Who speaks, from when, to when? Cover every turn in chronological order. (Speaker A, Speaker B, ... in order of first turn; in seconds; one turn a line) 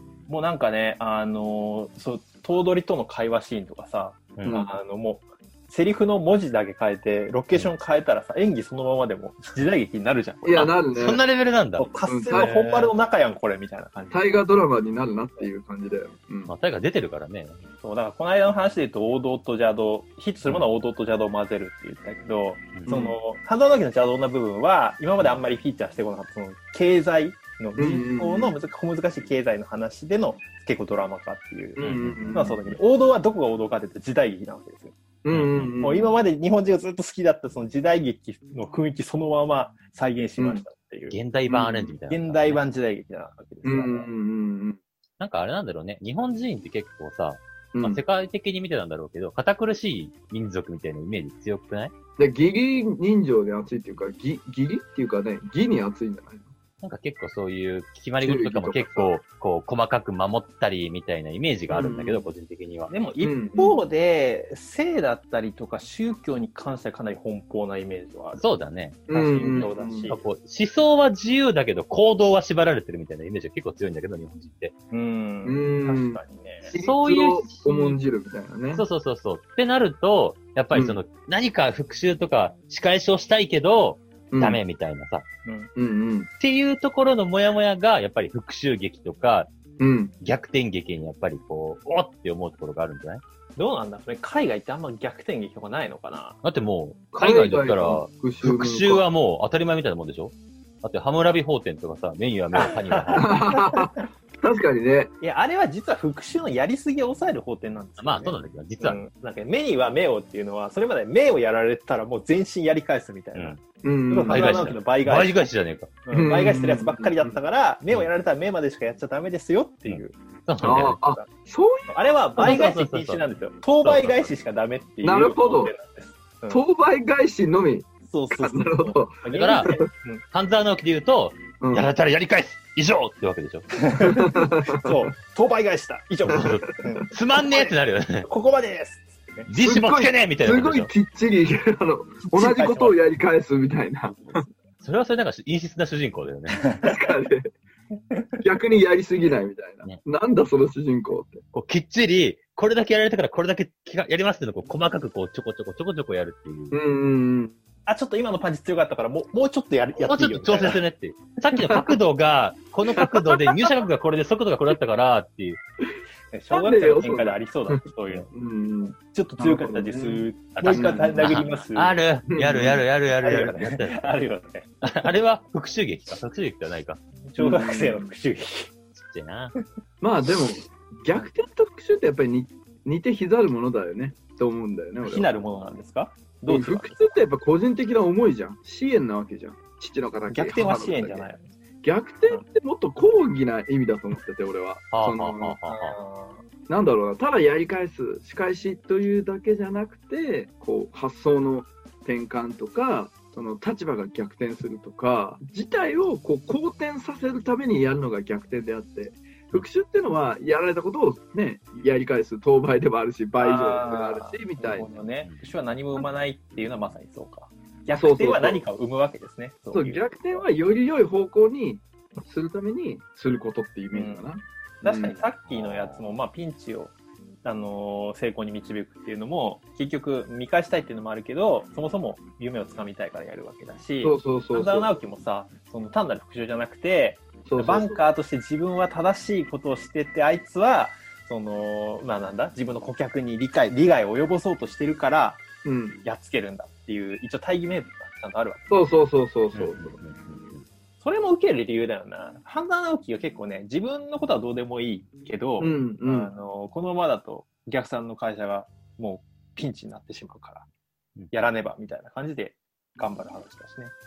Speaker A: 0.3-10.7
Speaker B: 4.5-4.7
Speaker B: 10.4-11.2
Speaker C: 10.5-12.9
Speaker A: 11.8-14.4
Speaker B: 12.1-12.7
Speaker B: 14.1-16.5
Speaker C: 16.5-17.6
Speaker A: 17.8-35.0
Speaker C: 22.7-23.0
Speaker B: 22.9-23.1
Speaker B: 27.8-28.6
Speaker B: 31.8-32.6
Speaker C: 31.8-32.7
Speaker B: 35.2-36.1
Speaker C: 35.3-35.7
Speaker A: 35.8-41.2
Speaker B: 40.4-40.6
Speaker C: 41.1-42.6
Speaker B: 41.5-41.9
Speaker A: 42.1-44.1
Speaker B: 43.6-44.8
Speaker C: 45.2-51.9
Speaker B: 47.7-48.0
Speaker B: 52.2-56.5
Speaker C: 56.8-62.9
Speaker B: 58.2-59.1
Speaker B: 61.7-62.2
Speaker A: 62.9-68.5
Speaker B: 63.2-63.8
Speaker C: 68.4-74.7
Speaker B: 69.1-70.1
Speaker A: 69.1-70.2
Speaker A: 74.9-76.7
Speaker B: 75.4-78.8
Speaker C: 76.7-78.0
Speaker C: 78.7-85.2
Speaker B: 80.7-81.0
Speaker B: 84.3-84.6
Speaker A: 85.4-85.7
Speaker B: 85.8-86.3
Speaker C: 86.4-89.5
Speaker B: 89.8-90.1
Speaker C: 90.2-93.2
Speaker A: 93.5-96.4
Speaker C: 96.4-103.5
Speaker B: 97.1-99.0
Speaker A: 102.9-103.9
Speaker B: 103.1-105.1
Speaker A: 105.2-115.3
Speaker C: 108.0-109.0
Speaker B: 113.8-114.6
Speaker C: 114.3-115.9
Speaker A: 116.0-121.3
Speaker B: 116.1-117.4
Speaker C: 119.9-121.0
Speaker B: 120.6-122.6
Speaker A: 121.9-126.6
Speaker C: 122.4-123.2
Speaker C: 123.8-124.3
Speaker B: 125.0-125.7
Speaker B: 126.5-129.8
Speaker A: 128.0-130.2
Speaker C: 129.3-129.7
Speaker C: 130.3-133.7
Speaker B: 131.6-131.9
Speaker A: 133.8-139.5
Speaker B: 134.0-135.1
Speaker C: 136.2-138.3
Speaker B: 136.3-137.1
Speaker C: 139.5-140.9
Speaker B: 139.6-144.4
Speaker A: 142.2-143.0
Speaker A: 144.2-144.5
Speaker C: 144.8-146.6
Speaker B: 146.8-147.5
Speaker B: 148.4-151.4
Speaker C: 151.5-156.8
Speaker B: 156.7-157.5
Speaker A: 157.8-160.8
Speaker C: 160.0-165.6
Speaker B: 163.0-163.4
Speaker A: 166.3-168.3
Speaker B: 166.5-171.4
Speaker A: 168.9-171.9
Speaker C: 170.6-174.2
Speaker B: 172.3-172.8
Speaker A: 173.2-175.1
Speaker C: 174.8-177.0
Speaker A: 177.2-178.7
Speaker B: 177.4-178.1
Speaker C: 178.9-179.5
Speaker B: 180.0-185.3
Speaker A: 185.0-187.2
Speaker B: 186.5-191.3
Speaker A: 190.3-191.5
Speaker B: 191.8-195.6
Speaker C: 194.9-196.0
Speaker A: 195.7-196.4
Speaker B: 196.7-214.9
Speaker A: 213.4-220.4
Speaker B: 217.9-218.6
Speaker B: 219.7-225.2
Speaker A: 223.9-224.2
Speaker A: 224.8-245.4
Speaker B: 234.0-234.9
Speaker B: 237.4-238.0
Speaker B: 245.6-246.0
Speaker A: 246.0-248.7
Speaker B: 248.7-249.9
Speaker C: 249.5-250.6
Speaker A: 251.0-260.6
Speaker B: 255.6-256.3
Speaker A: 261.3-263.9